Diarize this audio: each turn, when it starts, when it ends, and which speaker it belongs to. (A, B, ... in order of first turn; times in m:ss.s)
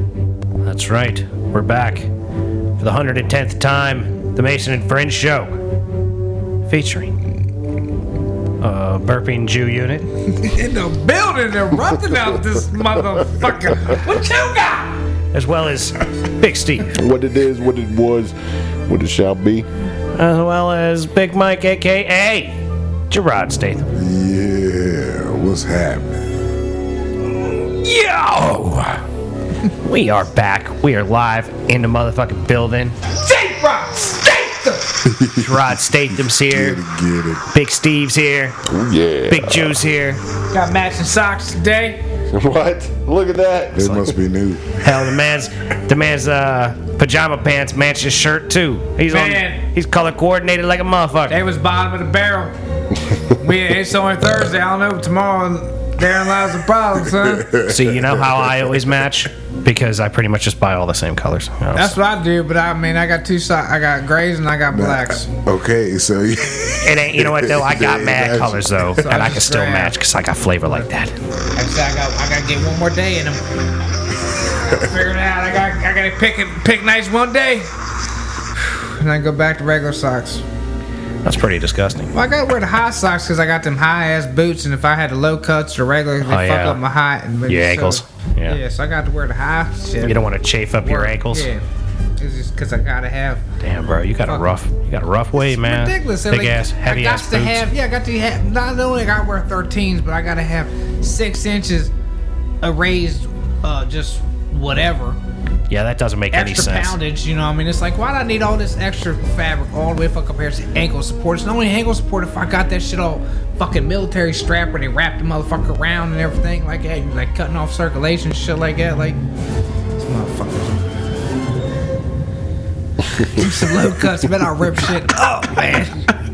0:00.6-0:02.1 A
0:02.8-0:05.5 A
0:06.6-0:07.2 A
0:08.6-0:10.1 A
0:10.3-0:15.0 B
0:15.3-0:16.9 A
0:16.9-0:18.3 C
0:18.8-0:19.7 C
0:20.1-0:23.9 A
0:23.9-0:26.4 D
0:27.4-0:29.0 A
0:29.8-0:33.0 A
0:33.2-0:35.0 B
0:35.0-0:35.7 D
0:35.4-0:36.8 A
0:36.3-0:37.4 D
0:37.5-0:38.6 A
0:38.6-0:39.8 C
0:39.3-0:40.2 A
0:40.5-0:42.0 B
0:42.3-0:44.1 C
0:43.7-0:44.7 D
0:44.8-0:51.4 A
0:49.1-0:49.6 B
0:51.3-0:52.5 B
0:53.3-0:57.5 B
0:57.0-0:58.5 D
0:57.7-1:02.0 A
1:01.7-1:05.3 B
1:04.7-1:08.8 D
1:06.8-1:11.1 A
1:09.0-1:10.0 B
1:10.6-1:10.9 B
1:11.5-1:13.4 B
1:14.6-1:17.7 B
1:18.6-1:20.4 B
1:21.2-1:22.1 A
1:22.1-1:30.3 B
1:26.2-1:26.8 A
1:27.5-1:28.6 A
1:30.0-1:31.5 A
1:30.8-1:31.6 B
1:32.2-1:33.4 B
1:33.6-1:37.6 A
1:34.2-1:34.5 B
1:35.4-1:41.9 B
1:42.6-1:45.2 B
1:45.7-1:47.0 A
1:46.3-1:59.2 B
2:00.0-2:00.8 B
2:03.1-2:06.1 B